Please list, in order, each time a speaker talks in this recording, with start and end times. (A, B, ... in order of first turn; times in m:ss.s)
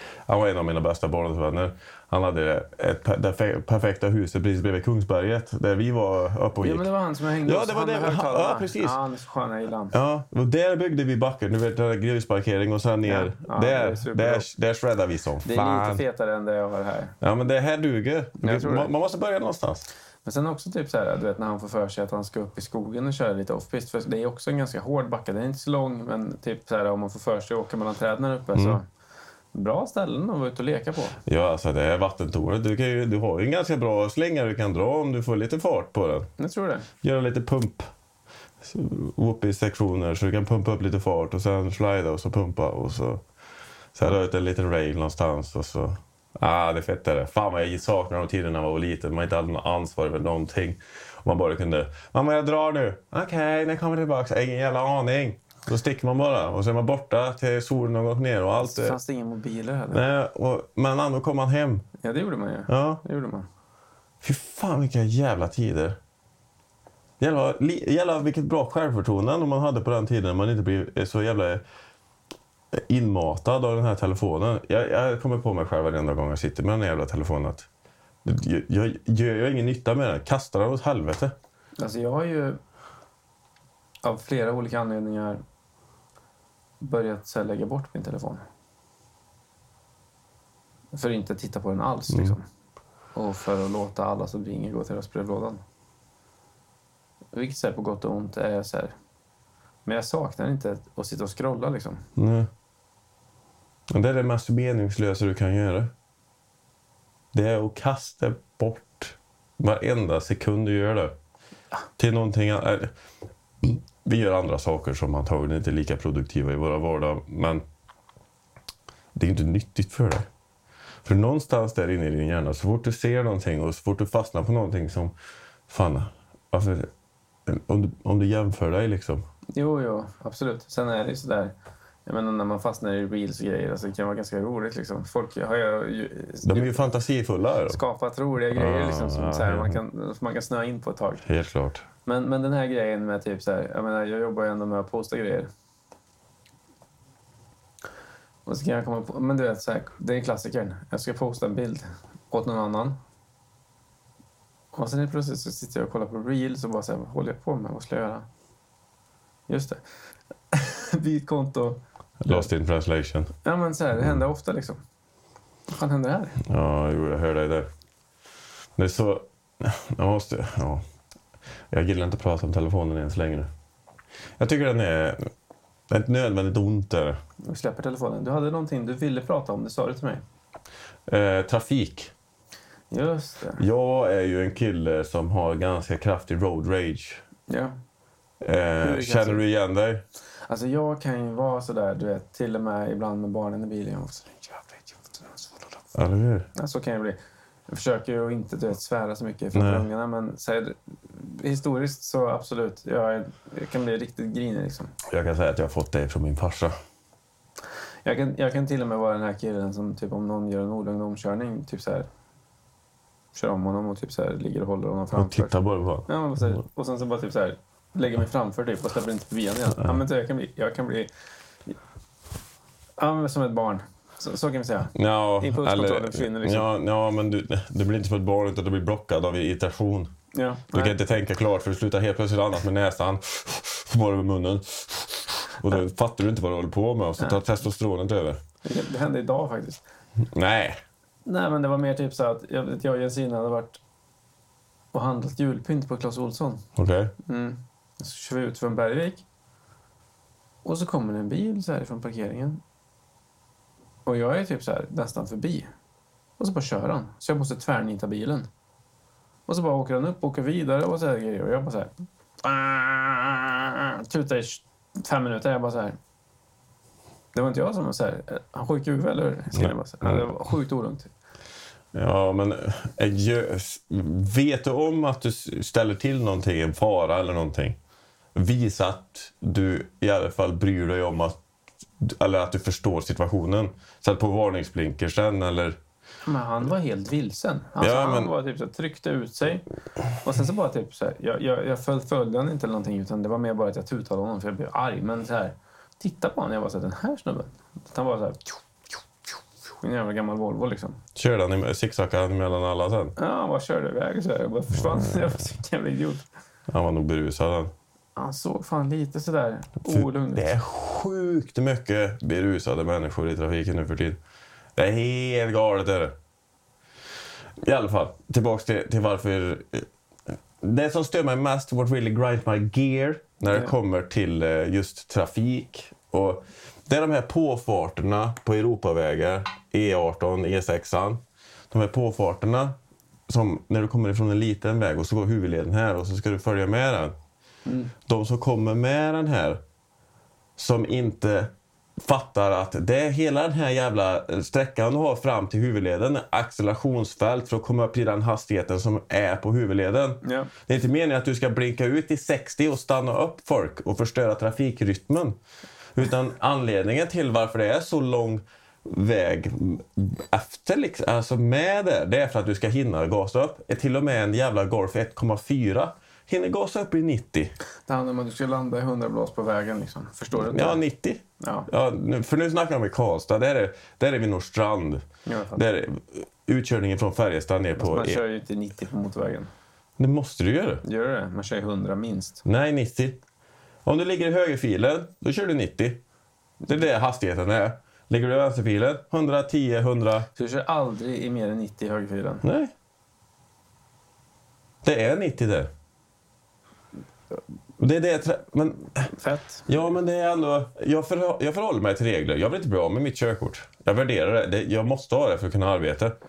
0:00.2-0:06.9 A
0:06.6-0:09.9 B
0:07.4-0:09.0 A
0:09.9-0:16.0 A
0:13.0-0:14.5 B
0:15.4-0:17.1 B
0:17.2-0:19.9 A
0:18.4-0:18.9 B
0:20.2-0:28.8 B
0:29.5-0:31.2 B
0:31.2-0:36.3 A
0:36.4-0:36.9 B
0:37.0-0:37.9 A
0:38.6-0:43.2 A
0:43.9-0:59.0 A
0:58.6-1:00.1 B
0:59.9-1:01.8 A
1:02.0-1:03.5 B
1:02.7-1:03.0 A
1:04.2-1:06.0 A
1:07.2-1:11.6 A
1:12.7-1:17.7 A
1:18.2-1:21.3 A
1:21.8-1:22.6 B
1:24.0-1:25.4 B
1:26.8-1:28.4 B
1:30.9-1:32.4 B
1:33.1-1:35.6 B
1:37.3-1:38.9 B
1:39.8-1:42.0 B
1:42.2-1:42.5 A
1:43.9-1:45.9 A
1:47.3-1:51.1 A
1:52.0-1:52.9 A
1:53.6-1:57.6 A
1:59.1-2:00.2 A
2:01.0-2:05.1 A
2:05.7-2:06.9 A
2:07.5-2:09.2 A
2:09.6-2:11.5 B
2:12.0-2:16.8 B
2:16.4-2:17.8 A
2:17.7-2:21.2 B
2:18.5-2:19.8 A
2:21.2-2:21.8 A
2:22.0-2:25.5 B
2:28.4-2:33.0 B
2:34.7-2:38.3 B
2:39.5-2:39.8 B
2:40.5-2:42.5 B
2:42.2-2:43.3 A
2:43.4-2:44.8 B
2:45.7-2:46.4 B
2:46.4-2:47.7 A
2:48.8-2:50.8 A
2:51.7-2:53.5 A
2:54.4-2:55.3 A
2:55.9-2:57.2 A
2:57.4-3:00.2 B
3:01.1-3:02.1 A
3:02.9-3:03.6 B
3:03.6-3:07.2 A
3:07.5-3:07.7 B
3:08.4-3:10.0 A
3:08.8-3:09.4 B
3:10.5-3:15.6 B
3:15.9-3:16.5 A
3:16.5-3:17.2 B
3:17.7-3:24.9 B
3:19.5-3:19.8 A
3:25.0-3:26.7 A
3:28.0-3:32.1 B
3:33.3-3:35.5 B
3:35.1-3:36.1 A
3:36.1-3:41.1 B
3:43.0-3:46.7 B
3:44.9-3:50.1 A
3:50.3-3:51.0 B
3:50.7-3:58.4 A
3:58.6-3:59.8 B
4:00.2-4:00.8 A
4:01.2-4:03.8 B
4:04.9-4:06.6 B
4:06.8-4:07.1 A
4:07.2-4:09.2 B
4:10.6-4:12.6 B
4:14.0-4:15.7 B
4:16.4-4:18.5 B
4:19.5-4:21.9 B
4:22.4-4:26.0 B
4:27.3-4:31.1 B
4:29.5-4:30.3 A
4:31.9-4:37.8 A
4:38.3-4:41.4 A
4:42.0-4:45.8 A
4:46.2-4:49.6 B
4:47.8-4:48.3 A
4:50.2-4:58.6 B
4:59.8-5:01.0 B
5:01.1-5:03.1 A
5:03.2-5:06.2 B
5:04.8-5:05.2 A
5:06.7-5:07.7 A
5:08.2-5:10.5 B
5:09.8-5:14.2 A
5:14.8-5:16.1 A
5:17.6-5:19.9 A
5:20.6-5:32.7 A
5:23.5-5:23.7 B
5:33.3-5:37.1 A
5:37.6-5:37.9 B
5:38.0-5:39.6 A
5:40.6-5:55.4 A
5:50.2-5:50.5 B
5:56.0-6:07.5 A
6:07.9-6:10.8 B
6:10.3-6:18.2 A
6:11.4-6:11.7 B
6:15.2-6:15.6 B
6:17.8-6:19.5 B
6:20.0-6:20.8 A
6:20.8-6:22.4 B
6:22.4-6:23.2 A
6:23.8-6:26.0 A
6:26.7-6:30.3 A
6:30.4-6:32.4 B
6:32.4-6:32.7 A
6:34.8-6:35.7 A
6:37.8-6:39.1 A
6:39.1-6:39.7 B
6:39.7-6:46.1 A